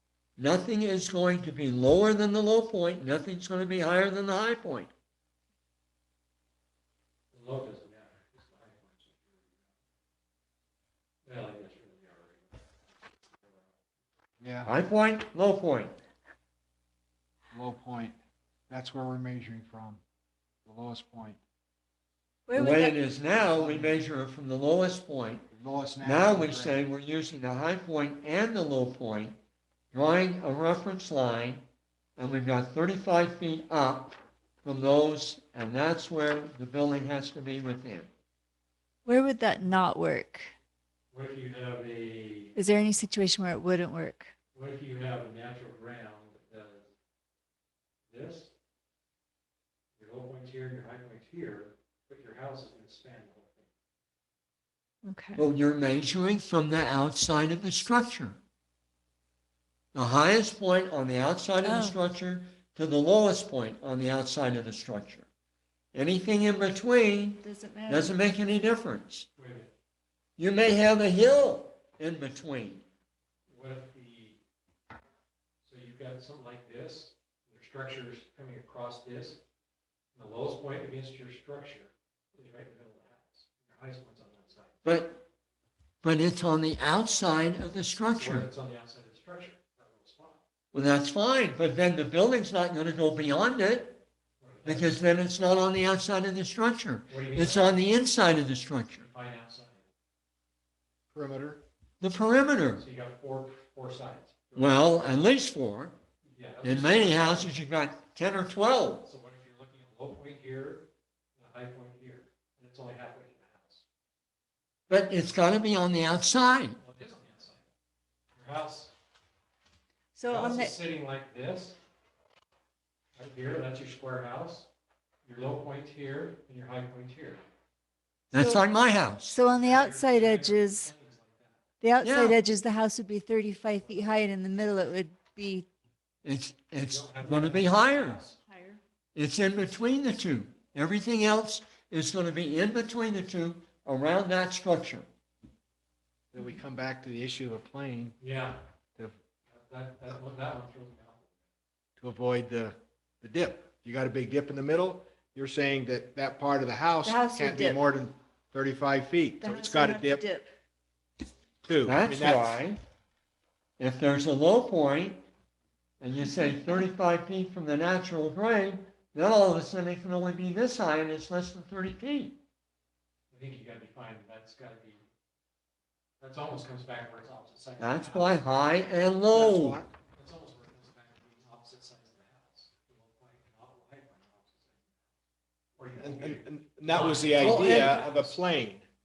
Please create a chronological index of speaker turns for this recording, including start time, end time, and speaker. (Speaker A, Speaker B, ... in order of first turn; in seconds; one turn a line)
Speaker A: 0.4-4.9
Speaker B: 7.3-9.6
Speaker B: 11.3-12.5
Speaker C: 14.4-14.7
Speaker A: 14.7-15.9
Speaker C: 17.5-18.2
Speaker C: 18.7-20.0
Speaker C: 20.6-21.4
Speaker D: 22.5-22.9
Speaker A: 22.5-25.5
Speaker C: 23.4-23.9
Speaker C: 25.5-26.8
Speaker A: 26.0-29.4
Speaker A: 29.9-31.6
Speaker A: 32.2-38.1
Speaker D: 39.1-40.5
Speaker B: 41.1-42.5
Speaker D: 42.6-44.3
Speaker B: 44.5-46.9
Speaker B: 48.1-48.5
Speaker B: 50.0-53.7
Speaker D: 55.0-55.4
Speaker A: 55.4-58.4
Speaker A: 60.0-65.3
Speaker D: 61.6-62.0
Speaker A: 65.9-69.3
Speaker D: 67.4-68.2
Speaker B: 69.4-69.7
Speaker A: 70.4-72.8
Speaker B: 73.5-74.4
Speaker B: 75.7-79.4
Speaker B: 80.2-84.8
Speaker A: 84.8-85.2
Speaker A: 86.0-88.5
Speaker B: 88.1-90.4
Speaker A: 90.7-94.0
Speaker B: 94.4-95.0
Speaker A: 94.7-99.1
Speaker B: 97.1-97.8
Speaker B: 99.0-99.8
Speaker C: 101.1-101.6
Speaker A: 102.0-102.8
Speaker B: 102.8-105.2
Speaker A: 104.5-106.0
Speaker B: 106.3-107.6
Speaker A: 106.6-109.1
Speaker B: 109.0-113.8
Speaker A: 114.9-116.8
Speaker B: 116.8-117.7
Speaker B: 118.3-118.9
Speaker D: 120.2-120.8
Speaker B: 120.3-121.8
Speaker B: 123.2-124.7
Speaker B: 125.2-127.4
Speaker A: 128.3-129.4
Speaker D: 128.3-128.6
Speaker D: 129.3-130.9
Speaker B: 129.6-131.6
Speaker D: 131.8-135.7
Speaker A: 132.0-132.4
Speaker A: 136.2-138.2
Speaker B: 136.8-138.4
Speaker D: 138.5-138.8
Speaker A: 139.2-145.1
Speaker C: 146.3-148.2
Speaker B: 148.2-148.6
Speaker B: 149.5-151.3
Speaker C: 152.0-160.2
Speaker D: 157.0-157.8
Speaker D: 159.4-160.5
Speaker C: 161.6-162.6
Speaker A: 161.8-162.8
Speaker A: 163.8-165.2
Speaker A: 166.0-172.4
Speaker B: 173.3-175.0
Speaker B: 176.2-178.4
Speaker A: 177.8-179.8
Speaker C: 179.3-179.9
Speaker B: 180.1-185.0
Speaker B: 185.8-188.4
Speaker C: 186.0-188.8
Speaker A: 187.4-188.0